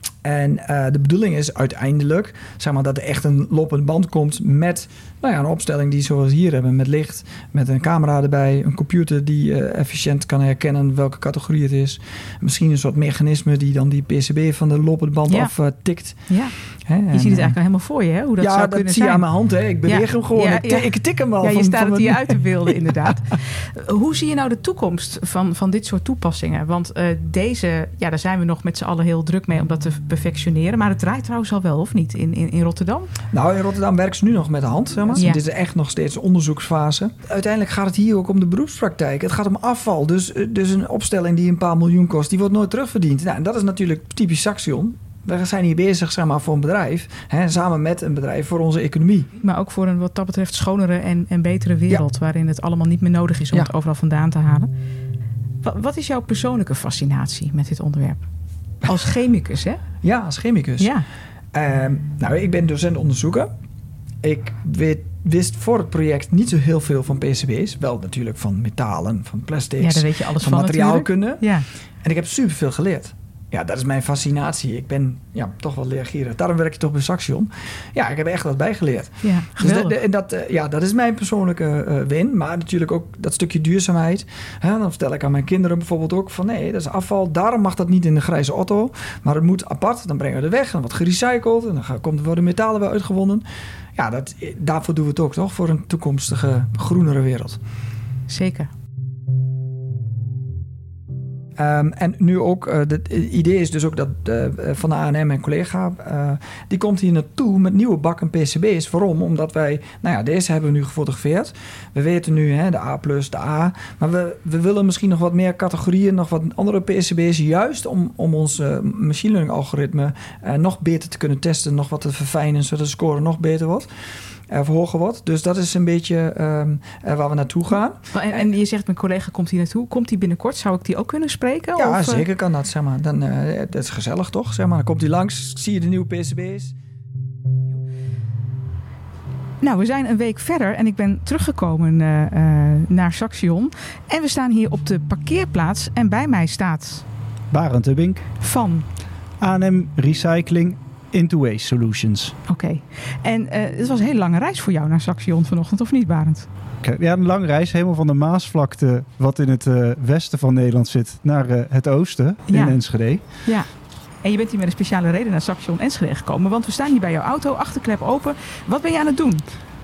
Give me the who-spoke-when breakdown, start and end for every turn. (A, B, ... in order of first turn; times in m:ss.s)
0:00.2-0:17.6 A
0:15.3-0:15.5 B
0:16.3-0:16.5 B
0:17.1-0:33.1 B
0:18.4-0:22.8 A
0:33.3-0:49.3 A
0:35.1-0:35.4 B
0:49.4-0:54.7 B
0:55.6-0:58.2 B
0:58.8-0:59.8 B
1:00.0-1:00.9 A
1:00.8-1:01.0 B
1:01.5-1:03.5 A
1:04.2-1:11.5 A
1:09.8-1:11.6 B
1:12.0-1:33.4 A
1:19.2-1:19.9 B
1:34.0-1:37.6 A
1:38.3-1:38.7 B
1:41.6-2:03.9 A
2:04.5-2:08.4 A
2:08.1-2:12.2 B
2:11.8-2:16.7 A
2:19.6-2:27.0 B
2:27.5-2:28.2 C
2:28.4-2:28.8 B
2:29.4-2:32.4 C
2:32.5-2:36.5 B
2:36.8-2:43.4 C
2:42.5-2:43.7 B
2:44.2-2:49.4 B